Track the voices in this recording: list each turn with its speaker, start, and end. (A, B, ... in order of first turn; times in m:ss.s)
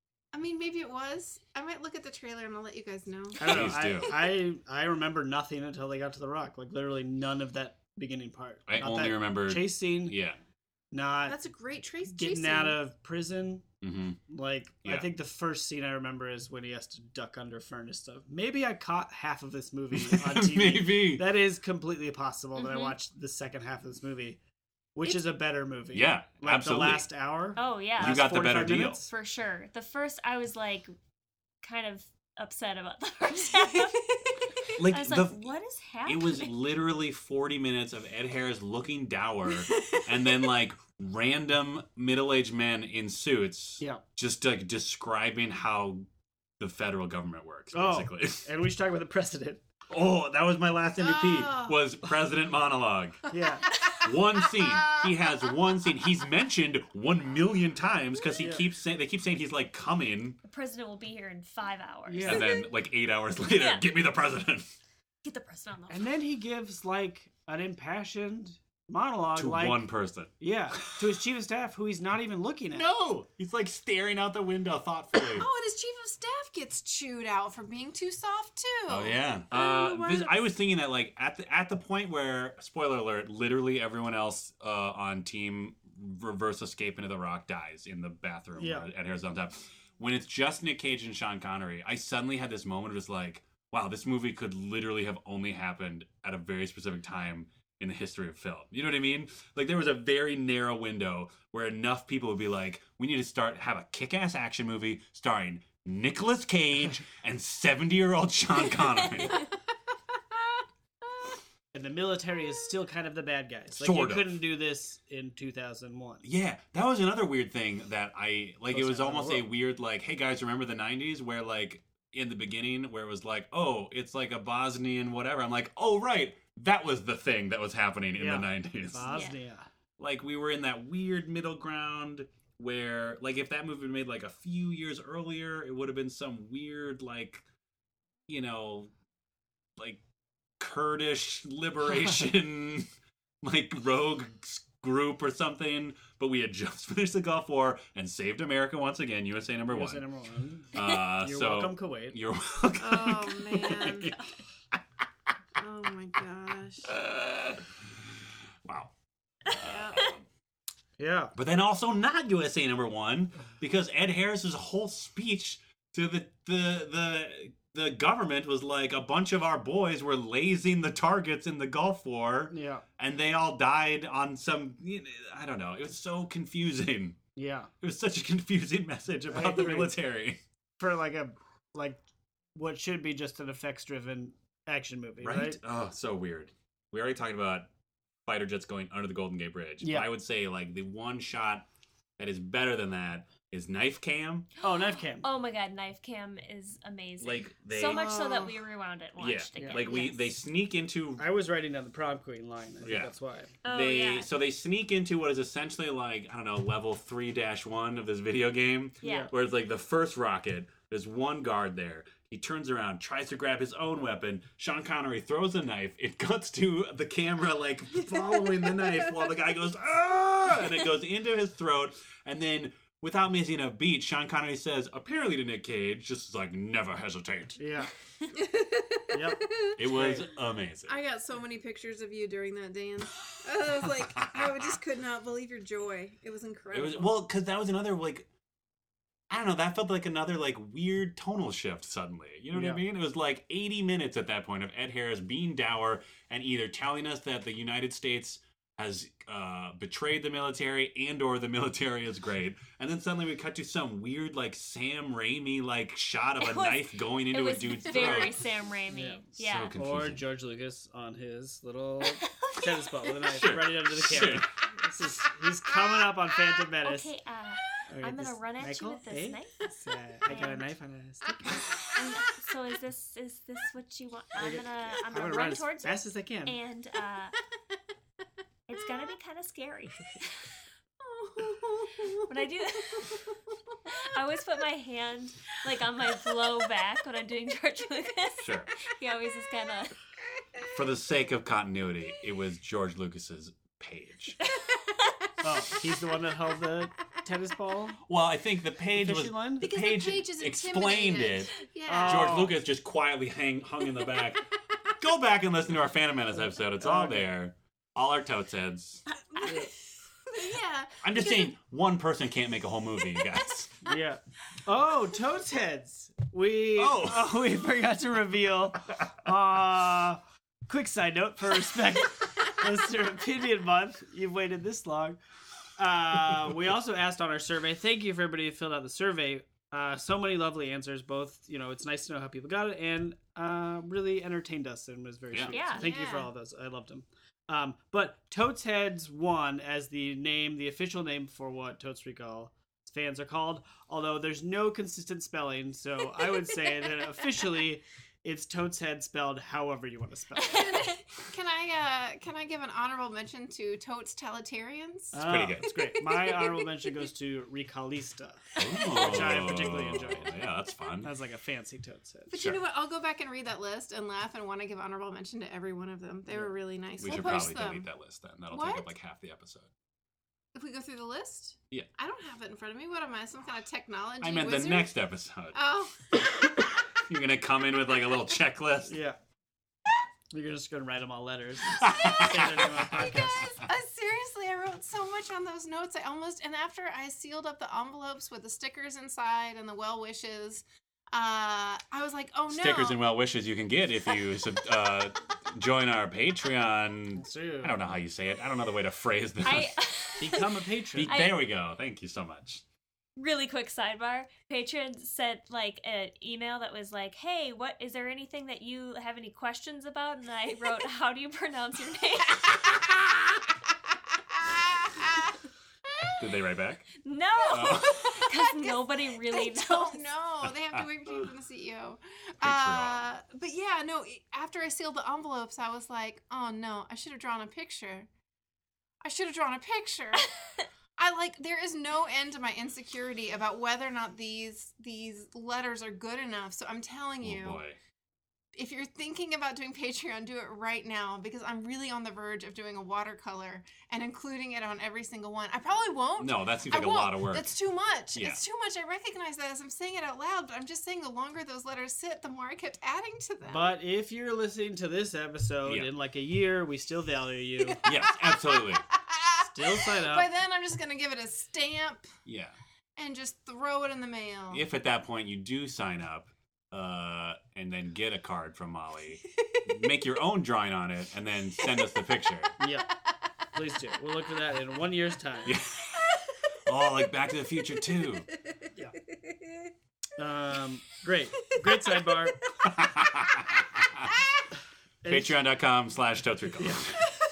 0:00.3-0:04.1 A
0:03.4-0:10.2 B
0:03.4-0:04.2 C
0:08.7-0:10.4 C
0:10.9-0:11.4 B
0:11.3-0:12.8 A
0:12.1-0:13.6 B
0:13.8-0:14.2 C
0:14.3-0:24.4 B
0:19.9-0:21.2 C
0:22.6-0:23.0 D
0:25.0-0:29.1 B
0:25.9-0:27.1 C
0:27.6-0:28.2 D
0:28.0-0:29.0 C
0:29.1-0:30.9 D
0:31.6-0:34.1 D
0:33.7-0:34.7 A
0:34.7-0:36.6 D
0:34.8-0:35.4 C
0:36.1-0:46.1 C
0:39.6-0:40.0 A
0:46.6-0:48.5 C
0:47.7-0:49.6 B
0:49.9-0:53.2 C
0:51.0-0:51.8 A
0:53.3-0:53.7 B
0:53.3-0:55.5 A
0:54.0-1:00.4 C
0:58.4-0:58.6 B
1:00.4-1:02.4 D
1:02.1-1:02.6 B
1:02.2-1:04.7 C
1:03.6-1:03.8 D
1:05.2-1:06.1 D
1:05.9-1:09.8 B
1:09.4-1:10.3 C
1:10.4-1:12.9 B
1:12.7-1:15.5 C
1:15.2-1:20.4 A
1:18.9-1:49.4 C
1:28.6-1:28.9 B
1:51.7-1:56.2 B
1:53.8-1:54.4 C
1:56.2-2:09.1 C
1:58.7-1:59.5 B
2:08.2-2:09.7 B
2:09.0-2:09.4 D
2:10.0-2:17.4 C
2:18.3-2:18.9 C
2:20.6-2:22.9 C
2:23.4-2:30.0 C
2:29.7-2:32.2 B
2:30.7-2:34.2 C
2:32.8-2:34.1 A
2:35.6-2:37.0 A
2:36.9-2:37.7 C
2:38.6-2:38.9 C
2:39.5-2:40.2 C
2:39.6-2:40.1 A
2:41.0-2:41.3 B
2:41.4-2:57.2 C
2:52.5-2:52.8 B
2:57.4-2:57.7 B
2:57.8-3:00.4 C
2:59.3-2:59.9 B
3:00.8-3:02.0 B
3:02.6-3:05.6 B
3:05.2-3:07.7 C
3:08.3-3:11.7 C
3:09.8-3:10.1 B
3:12.2-3:14.5 C
3:14.6-3:15.3 B
3:14.7-3:20.3 D
3:17.2-3:18.1 C
3:17.8-3:18.6 A
3:19.2-3:21.2 C
3:19.6-3:19.9 B
3:21.2-3:23.5 B
3:22.8-3:23.1 C
3:23.6-3:24.3 D
3:23.6-3:47.6 C
3:29.0-3:29.3 D
3:29.0-3:29.3 B
3:47.6-3:47.9 B
3:48.3-3:49.8 A
3:49.1-3:50.3 B
3:49.8-3:51.0 C
3:50.9-3:57.1 A
3:54.2-3:54.7 C
3:56.7-3:58.3 C
3:59.3-4:18.4 C
4:02.5-4:02.8 B
4:16.4-4:19.7 D
4:18.9-4:19.2 B
4:19.4-4:20.2 C
4:19.8-4:27.1 B
4:22.2-4:22.6 D
4:23.2-4:24.5 C
4:26.8-4:29.7 D
4:27.9-4:31.5 B
4:30.2-4:30.7 D
4:31.4-4:32.2 A
4:32.0-4:37.4 D
4:34.4-4:36.6 B
4:38.7-4:40.5 D
4:41.0-4:42.3 A
4:42.3-4:43.2 D
4:42.9-4:43.4 A
4:43.9-4:50.0 D
4:48.4-4:48.7 C
4:50.7-4:54.4 C
4:55.4-4:58.0 B
4:58.1-5:04.5 C
4:58.9-4:59.7 B
4:59.6-5:02.5 A
5:01.9-5:02.6 B
5:05.0-5:09.0 C
5:06.6-5:07.3 B
5:09.3-5:11.5 A
5:09.4-5:09.7 B
5:11.0-5:13.8 C
5:13.9-5:25.2 B
5:16.8-5:17.3 C
5:25.8-5:50.7 B
5:35.3-5:35.6 C
5:35.5-5:35.9 D
5:35.8-5:36.3 A
5:50.4-5:50.9 D
5:50.4-5:56.7 A
5:55.1-6:00.4 B
5:55.2-5:55.7 C
5:58.6-6:01.1 C
6:01.0-6:02.3 B
6:02.3-6:07.9 A
6:02.3-6:02.6 C
6:06.3-6:06.5 B
6:07.0-6:09.7 C
6:08.5-6:08.9 A
6:10.5-6:14.9 A
6:14.2-6:15.6 C
6:15.5-6:16.7 A
6:17.1-6:19.0 C
6:18.9-6:19.2 B
6:20.3-6:23.5 B
6:21.8-6:23.0 C
6:21.9-6:33.0 A
6:32.5-6:39.8 C
6:37.2-6:37.8 B
6:39.4-6:41.4 D
6:40.2-6:41.2 B
6:40.9-6:42.6 C
6:43.2-6:52.7 D
6:52.7-6:53.0 A
6:54.4-6:55.3 A
6:56.0-6:56.2 A
6:56.2-6:56.9 C
6:57.0-7:00.1 D
6:57.5-6:58.3 C
6:57.5-7:08.1 A
7:02.4-7:03.1 C
7:09.0-7:10.3 A
7:11.0-7:17.6 A
7:17.2-7:17.8 C
7:18.5-7:33.7 A
7:26.2-7:27.5 C
7:28.1-7:28.4 C
7:33.4-7:37.8 B
7:37.8-7:38.8 C
7:37.9-7:42.1 A
7:39.5-7:40.3 B
7:42.3-7:42.6 C
7:43.0-7:44.6 A
7:44.5-7:52.6 C
7:52.6-7:52.9 B
7:53.5-7:55.6 B
7:55.4-7:56.0 C
7:56.7-7:58.3 C
8:00.2-8:02.5 B
8:01.6-8:02.0 A
8:02.6-8:04.2 C
8:05.0-8:05.4 B
8:05.1-8:07.0 C
8:06.6-8:06.9 B